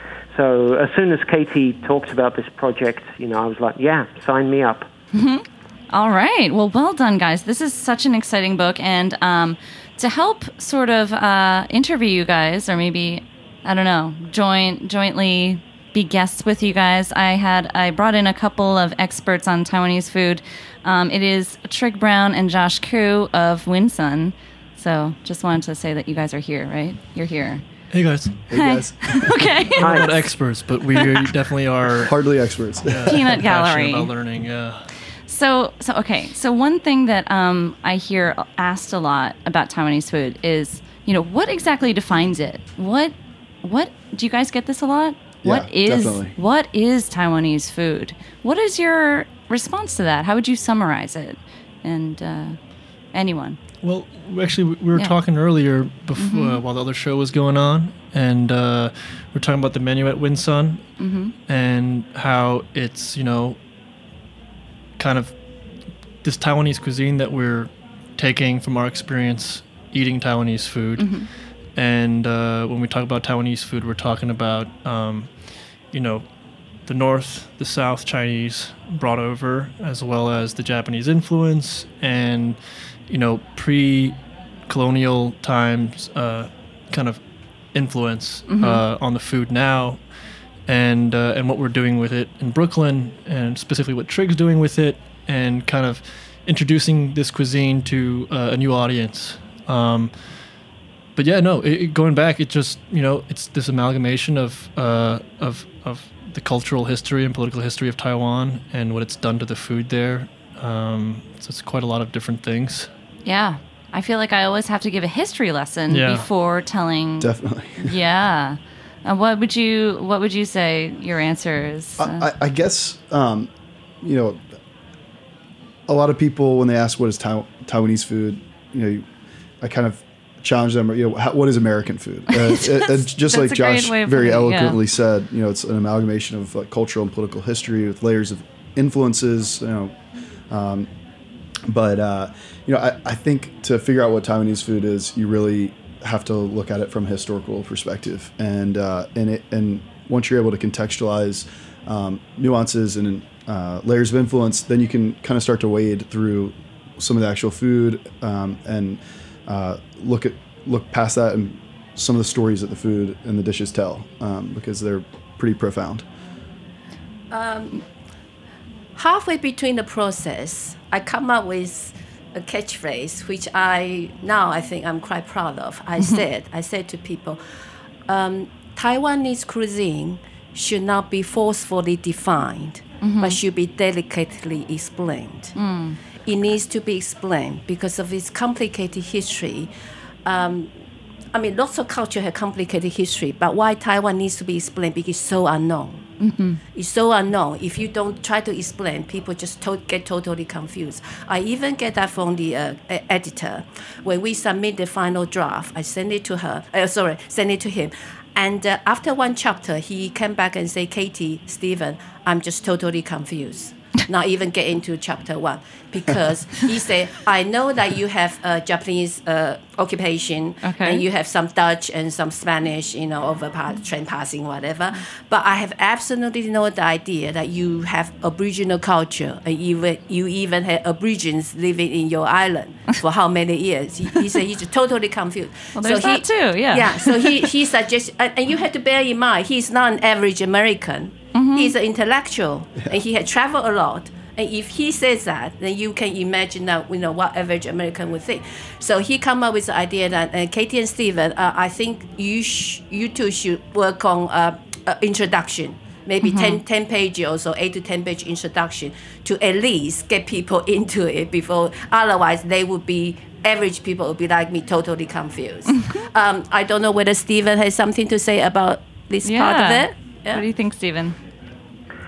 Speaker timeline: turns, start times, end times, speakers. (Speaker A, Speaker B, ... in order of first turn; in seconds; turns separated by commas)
Speaker A: 0.3-4.9, Speaker B: 5.1-27.6, Speaker C: 27.9-28.5, Speaker D: 28.5-29.5, Speaker B: 28.5-30.0, Speaker C: 29.8-32.2, Speaker A: 29.8-30.3, Speaker D: 32.0-33.2, Speaker C: 32.8-34.9, Speaker B: 33.0-34.1, Speaker B: 35.3-52.6, Speaker D: 45.4-46.3, Speaker B: 53.1-53.6, Speaker C: 53.8-63.6, Speaker B: 56.1-56.6, Speaker B: 61.0-61.3, Speaker C: 65.0-65.4, Speaker C: 66.2-90.1, Speaker B: 71.0-71.3, Speaker B: 88.5-88.8, Speaker C: 90.7-100.3, Speaker C: 101.2-112.9, Speaker B: 113.2-122.2, Speaker C: 115.9-116.2, Speaker D: 117.2-117.9, Speaker D: 122.0-123.5, Speaker D: 124.0-124.4, Speaker D: 125.9-129.0, Speaker D: 129.6-139.9, Speaker B: 132.3-134.8, Speaker D: 140.5-140.9, Speaker D: 141.7-166.0, Speaker E: 167.3-167.8, Speaker E: 168.9-177.4, Speaker E: 178.1-185.5, Speaker B: 183.0-183.4, Speaker B: 185.6-186.0, Speaker E: 186.2-189.7, Speaker E: 190.2-190.7, Speaker E: 191.3-196.0, Speaker B: 196.2-196.6, Speaker E: 196.7-270.4, Speaker B: 220.6-221.0, Speaker B: 235.7-237.4, Speaker B: 241.3-241.7, Speaker B: 256.2-256.6, Speaker B: 269.2-271.1